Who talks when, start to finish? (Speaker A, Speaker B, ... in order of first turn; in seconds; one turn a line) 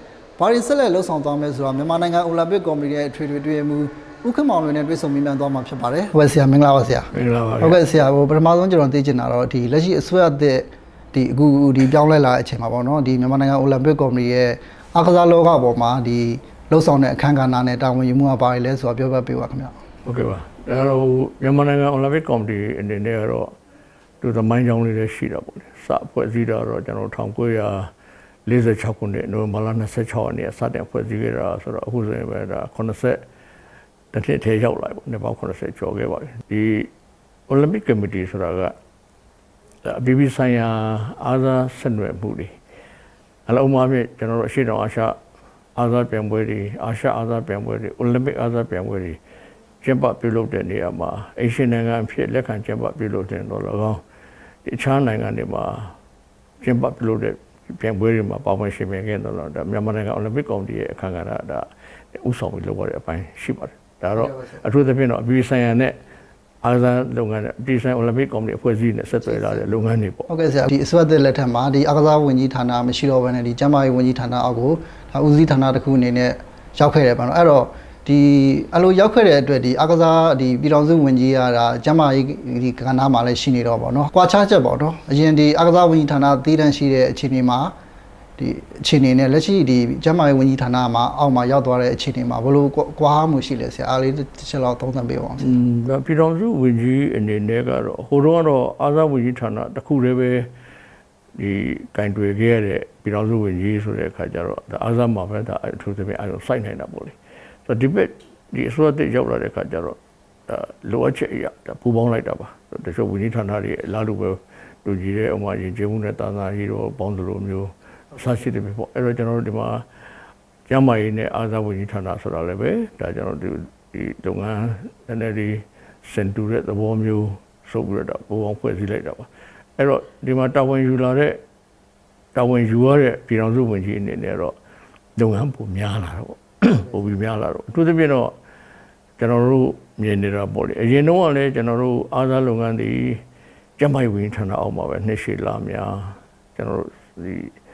Speaker A: 0.4-19.8
Speaker B: 7.1-7.8
Speaker B: 20.1-23.5
Speaker B: 24.2-27.9
Speaker B: 28.4-33.2
Speaker B: 34.1-36.9
Speaker B: 37.5-38.7
Speaker B: 39.8-42.5
Speaker B: 43.5-45.2
Speaker B: 45.8-49.2
Speaker B: 49.8-54.0
Speaker B: 54.6-55.9
Speaker B: 56.6-65.9
Speaker A: 64.2-64.5
Speaker B: 66.6-70.3
Speaker A: 70.3-87.7
Speaker A: 88.4-95.5
Speaker B: 95.4-100.5
Speaker B: 101.3-107.1
Speaker B: 107.7-119.8
Speaker B: 120.7-131.4
Speaker B: 132.3-134.5
Speaker B: 135.2-138.3
Speaker B: 139.2-143.2
Speaker B: 143.8-147.5